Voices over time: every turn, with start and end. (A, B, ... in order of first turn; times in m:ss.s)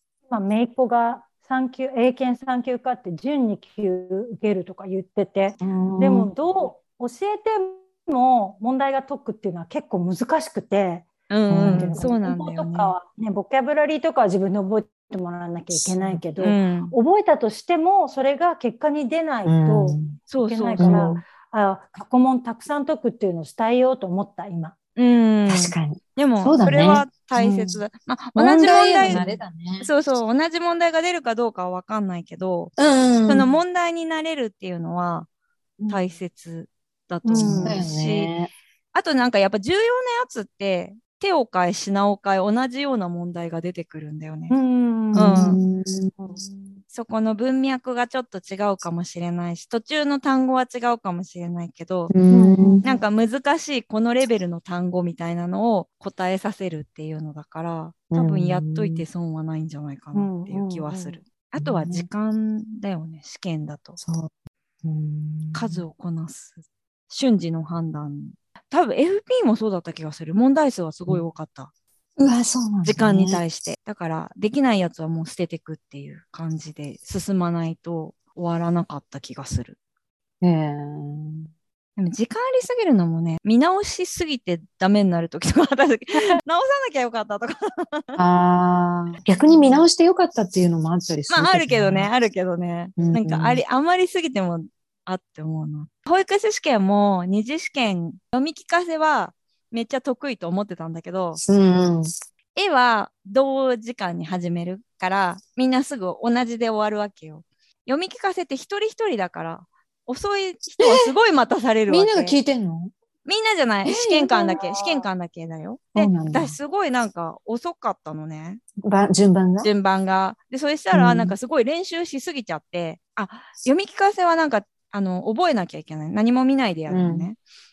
0:00.3-0:24.7 A
0:05.6-0:06.3 B
0:11.3-0:12.9 C
0:11.5-0:12.0 B
0:15.7-0:16.2 B
0:16.4-0:16.9 C
0:19.4-0:20.2 B
0:20.3-0:21.0 C
0:20.8-0:21.2 B
0:25.0-0:29.2 C
0:25.5-0:27.8 B
0:28.3-0:29.9 B
0:29.0-0:29.4 A
0:29.8-0:32.7 C
0:32.8-0:33.4 B
0:33.2-0:35.3 C
0:35.9-0:38.3 C
0:37.2-0:37.8 A
0:37.5-0:38.5 B
0:38.9-0:44.5 C
0:44.5-0:45.6 A
0:45.1-0:46.1 B
0:45.1-0:45.6 C
0:46.2-0:46.8 A
0:46.9-0:52.1 C
0:52.1-0:52.8 B
0:52.3-0:53.0 A
0:52.8-1:04.0 C
0:58.1-0:59.0 B
1:00.1-1:01.2 A
1:01.6-1:02.1 B
1:04.0-1:04.3 B
1:04.8-1:05.8 B
1:05.5-1:11.7 C
1:12.2-1:13.4 B
1:12.8-1:19.8 C
1:20.4-1:21.5 B
1:22.0-1:28.2 C
1:28.2-1:32.1 B
1:31.3-1:41.4 C
1:33.0-1:33.6 B
1:41.4-1:42.1 B
1:42.5-1:52.4 C
1:50.8-1:51.1 B
1:51.9-1:52.9 B
1:53.2-1:58.6 C
1:53.8-1:55.1 B
1:55.9-1:56.6 B
1:58.8-1:59.7 B
1:59.6-2:07.4 C
2:00.9-2:01.4 B
2:06.9-2:07.3 B